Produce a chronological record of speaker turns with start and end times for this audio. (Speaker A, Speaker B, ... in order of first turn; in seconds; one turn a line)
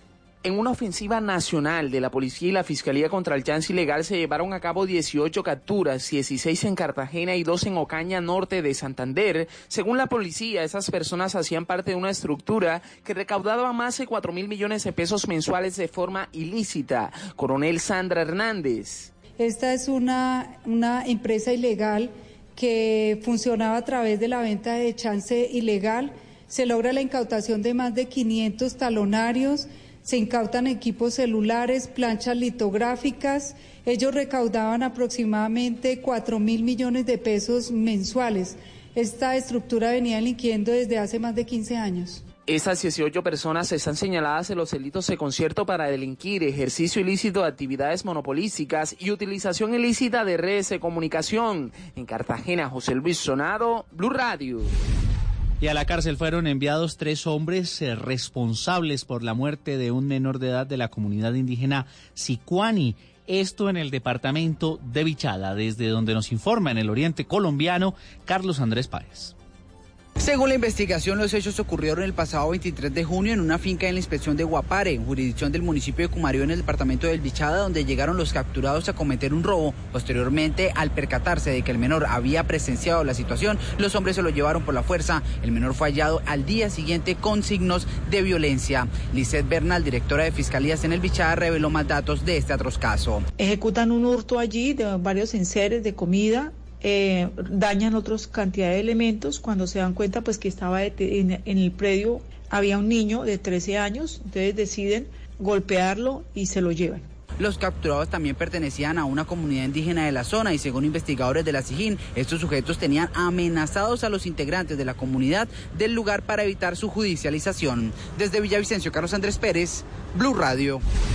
Speaker A: 0.4-19.1
Speaker B: 19.4-42.2
Speaker A: 42.5-54.7
Speaker C: 55.6-69.3
Speaker D: 70.2-93.2
Speaker E: 93.4-107.1
Speaker D: 107.4-120.8